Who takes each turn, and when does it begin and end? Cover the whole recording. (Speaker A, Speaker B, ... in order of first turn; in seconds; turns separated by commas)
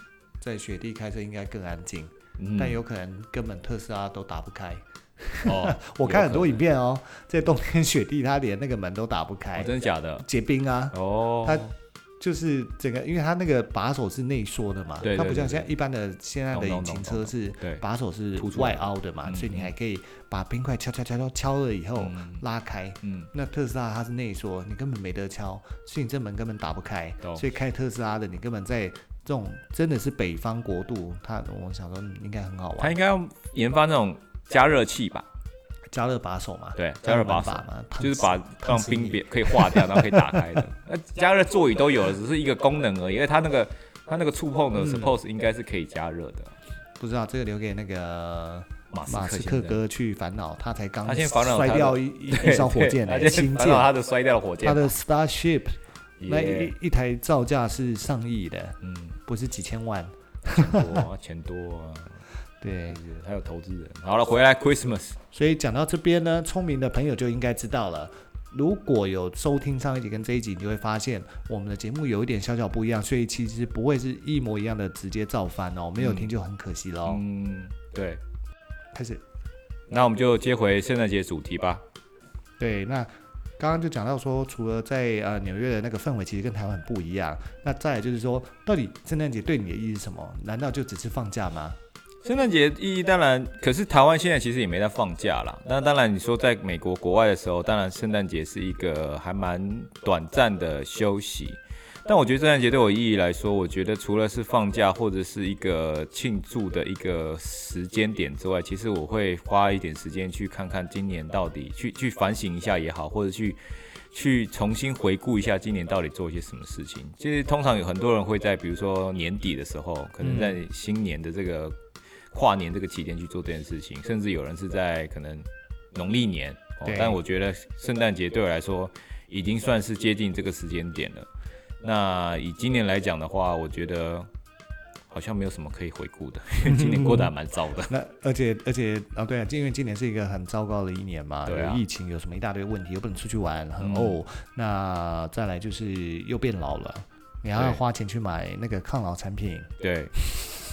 Speaker A: 0.4-33.0, Speaker B: 2.4-2.8, Speaker B: 5.5-6.6, Speaker B: 9.6-10.3, Speaker B: 10.9-11.7, Speaker B: 15.0-15.7, Speaker B: 16.5-17.8, Speaker B: 18.4-19.7, Speaker B: 22.0-22.4, Speaker B: 23.0-23.3, Speaker B: 32.8-35.3, Speaker A: 35.9-40.6, Speaker B: 36.8-46.5, Speaker A: 44.7-45.2, Speaker A: 47.0-53.9, Speaker B: 48.9-49.8, Speaker B: 51.0-54.9, Speaker A: 54.6-61.1, Speaker B: 56.2-56.7, Speaker B: 58.8-59.2, Speaker B: 60.4-62.2, Speaker A: 62.6-63.0, Speaker B: 62.9-65.2, Speaker A: 65.3-77.2, Speaker B: 76.0-76.3, Speaker B: 77.1-78.2, Speaker A: 78.9-79.2, Speaker B: 79.9-81.8, Speaker A: 82.6-91.8, Speaker B: 92.2-113.6, Speaker B: 114.1-121.8, Speaker A: 120.2-120.6, Speaker B: 122.3-131.3, Speaker A: 126.8-127.2, Speaker B: 131.8-134.3, Speaker B: 135.1-137.9, Speaker A: 136.7-137.3, Speaker A: 137.9-149.7, Speaker B: 141.5-141.8, Speaker B: 143.8-144.2, Speaker B: 147.5-147.8, Speaker B: 149.8-150.1